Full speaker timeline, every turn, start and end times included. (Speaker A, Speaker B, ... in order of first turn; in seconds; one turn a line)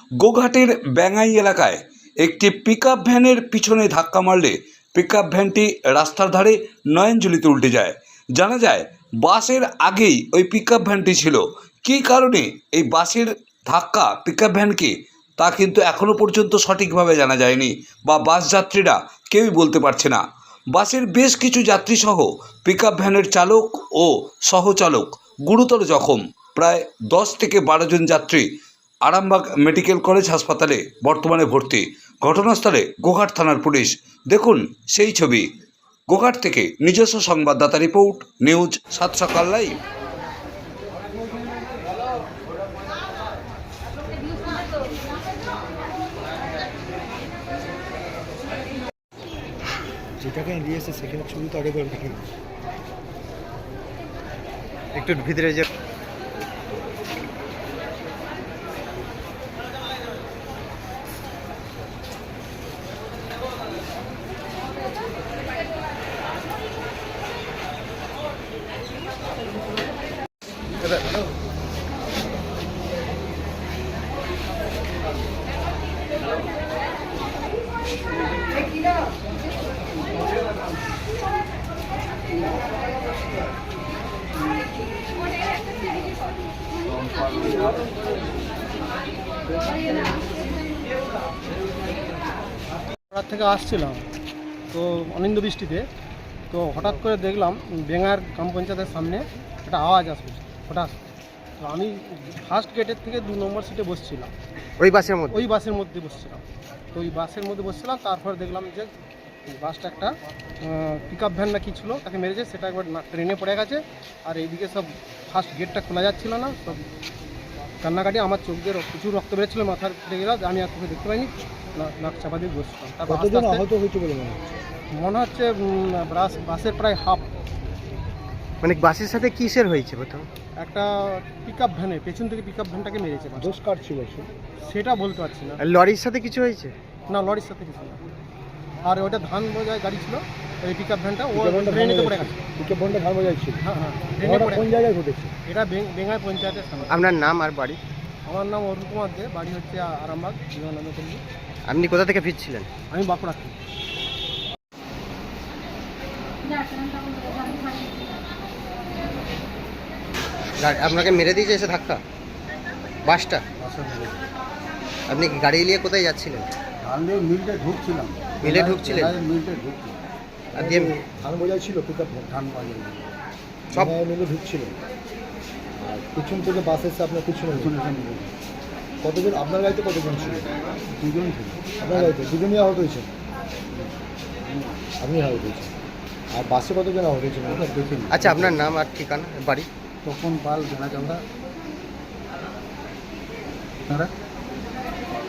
Speaker A: 0.2-20.2
Speaker A: 20.7-28.5
Speaker A: 29.1-35.5
Speaker A: 36.1-39.8
Speaker B: 50.2-52.2
Speaker C: 55.0-55.7
Speaker D: 93.1-94.1
Speaker D: 94.7-95.9
Speaker D: 96.5-101.0
Speaker D: 101.6-104.3
Speaker C: 104.8-105.4
Speaker D: 105.3-108.9
Speaker D: 109.5-116.8
Speaker D: 117.8-123.6
Speaker B: 123.1-124.5
Speaker D: 124.9-127.3
Speaker C: 128.6-130.3
Speaker D: 130.6-133.6
Speaker B: 133.4-134.3
Speaker D: 134.7-135.6
Speaker C: 135.6-136.8
Speaker D: 137.1-138.0
Speaker D: 138.8-142.4
Speaker B: 141.3-143.6
Speaker D: 143.6-144.7
Speaker B: 144.2-145.3
Speaker D: 145.5-147.0
Speaker C: 146.9-147.8
Speaker D: 148.3-151.2
Speaker C: 151.7-152.7
Speaker D: 152.9-153.6
Speaker C: 160.6-162.0
Speaker C: 163.1-163.4
Speaker E: 163.6-164.2
Speaker C: 165.1-166.5
Speaker E: 166.8-170.0
Speaker C: 168.4-169.2
Speaker B: 170.6-172.3
Speaker C: 170.6-170.9
Speaker E: 172.3-173.1
Speaker B: 173.7-174.8
Speaker B: 175.8-177.8
Speaker E: 177.6-178.3
Speaker B: 179.0-180.5
Speaker E: 180.9-182.1
Speaker B: 181.8-183.1
Speaker E: 184.5-184.8
Speaker B: 185.0-185.7
Speaker B: 186.3-187.7
Speaker E: 187.5-188.6
Speaker C: 188.1-189.7
Speaker E: 190.0-191.2